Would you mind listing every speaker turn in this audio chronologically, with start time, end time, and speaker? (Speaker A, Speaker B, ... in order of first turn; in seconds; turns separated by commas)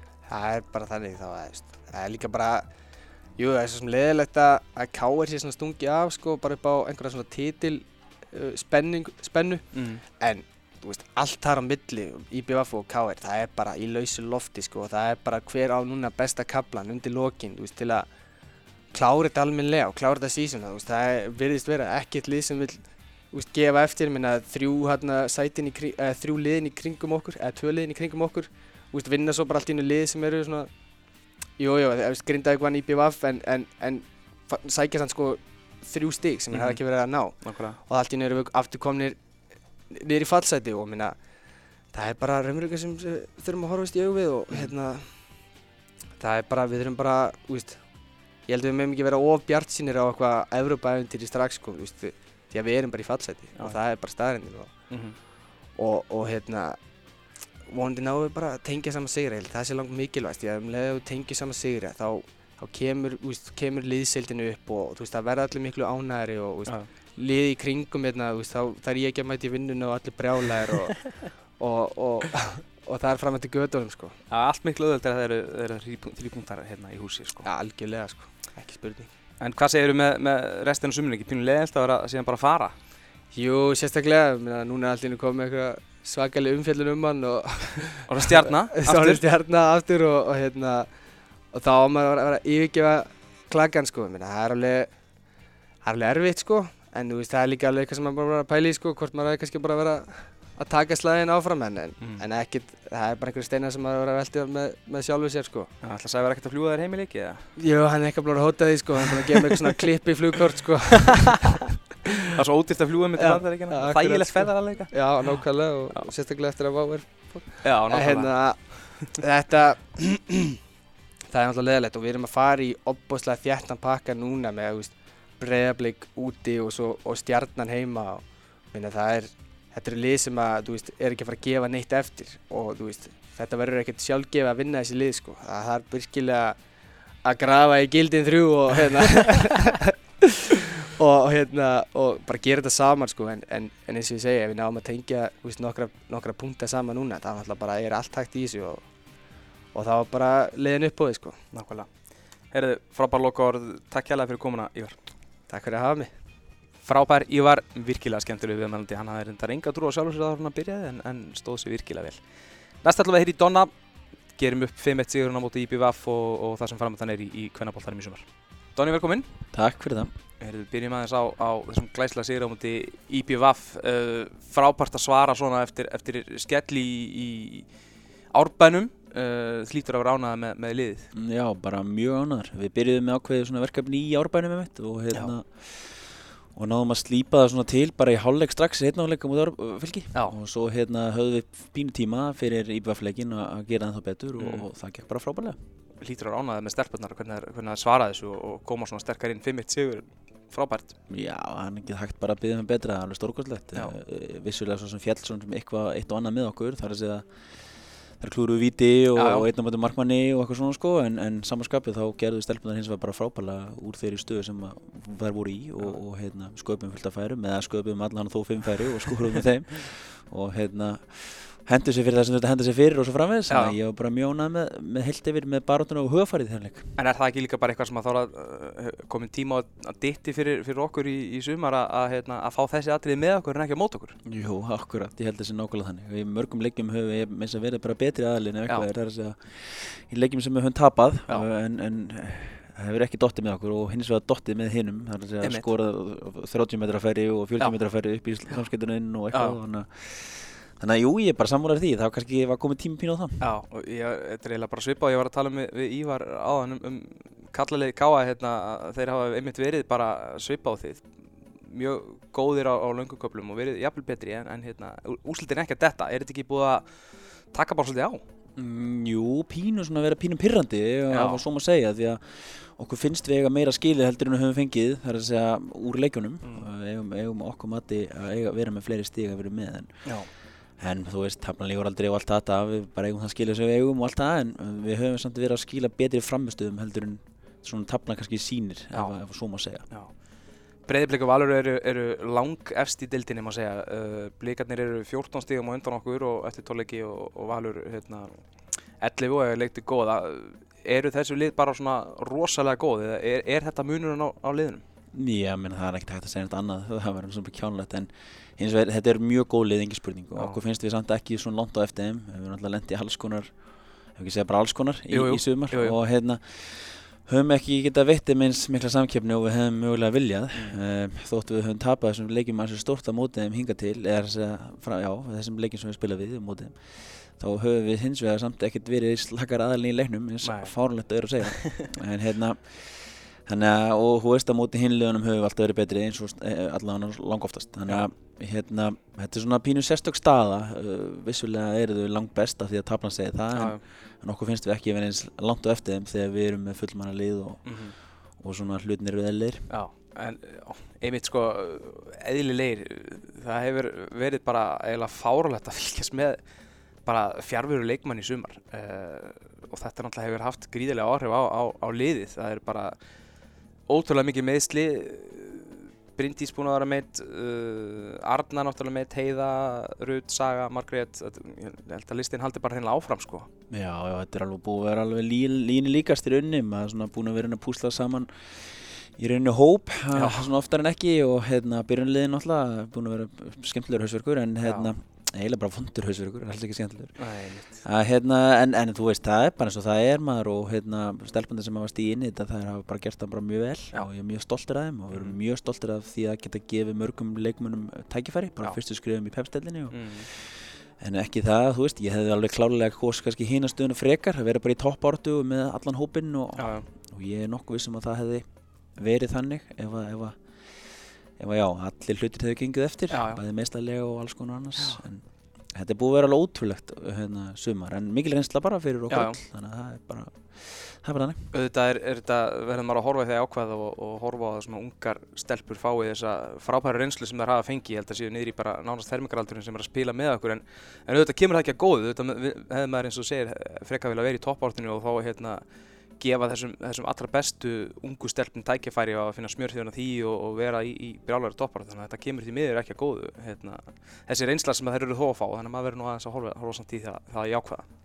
Speaker A: 0.2-18.1, Speaker B: 9.7-10.0, Speaker A: 18.9-30.7, Speaker A: 31.5-45.5, Speaker B: 36.5-37.8, Speaker A: 46.2-57.0, Speaker B: 54.9-55.2, Speaker A: 57.6-74.2, Speaker B: 74.3-77.5, Speaker A: 77.4-79.1, Speaker B: 79.4-82.7, Speaker A: 83.3-90.9, Speaker B: 88.1-89.2, Speaker A: 91.5-95.2, Speaker A: 95.8-105.7, Speaker B: 105.8-107.5, Speaker A: 107.6-111.6, Speaker B: 112.3-116.1, Speaker A: 113.2-120.5, Speaker B: 117.6-119.0, Speaker A: 121.3-136.6, Speaker A: 137.2-140.3, Speaker A: 141.0-149.1, Speaker A: 149.7-151.4, Speaker B: 151.5-155.0, Speaker A: 155.5-156.1, Speaker B: 156.8-163.8, Speaker B: 164.3-169.3, Speaker C: 169.5-170.1, Speaker B: 170.4-181.1, Speaker C: 181.1-195.6, Speaker B: 194.4-194.7, Speaker B: 196.0-200.9, Speaker C: 201.1-226.9, Speaker B: 209.1-209.5, Speaker B: 223.5-223.8, Speaker B: 227.0-234.2, Speaker C: 234.2-253.4, Speaker B: 245.4-245.7, Speaker B: 249.3-249.6, Speaker B: 253.4-268.2, Speaker C: 268.6-289.9, Speaker B: 271.1-271.4, Speaker B: 276.4-276.7, Speaker B: 280.1-280.3, Speaker B: 288.9-289.2, Speaker B: 289.9-290.3, Speaker B: 290.8-304.8, Speaker C: 305.1-349.7, Speaker B: 310.4-310.6, Speaker B: 315.1-316.0, Speaker B: 320.5-320.8, Speaker B: 330.4-330.8, Speaker B: 331.5-331.9, Speaker B: 337.9-338.1, Speaker B: 343.5-343.8, Speaker B: 347.6-347.9, Speaker B: 349.7-356.5, Speaker B: 357.0-363.0, Speaker B: 363.9-373.5, Speaker C: 373.7-387.2, Speaker B: 380.1-380.5, Speaker B: 384.6-384.9, Speaker B: 387.2-387.8, Speaker C: 387.8-408.4, Speaker B: 395.1-395.4, Speaker B: 399.9-400.3, Speaker B: 406.6-406.9, Speaker C: 409.0-421.4, Speaker B: 413.1-413.4, Speaker B: 414.8-415.0, Speaker B: 419.1-419.4, Speaker B: 421.5-435.6, Speaker B: 436.2-447.9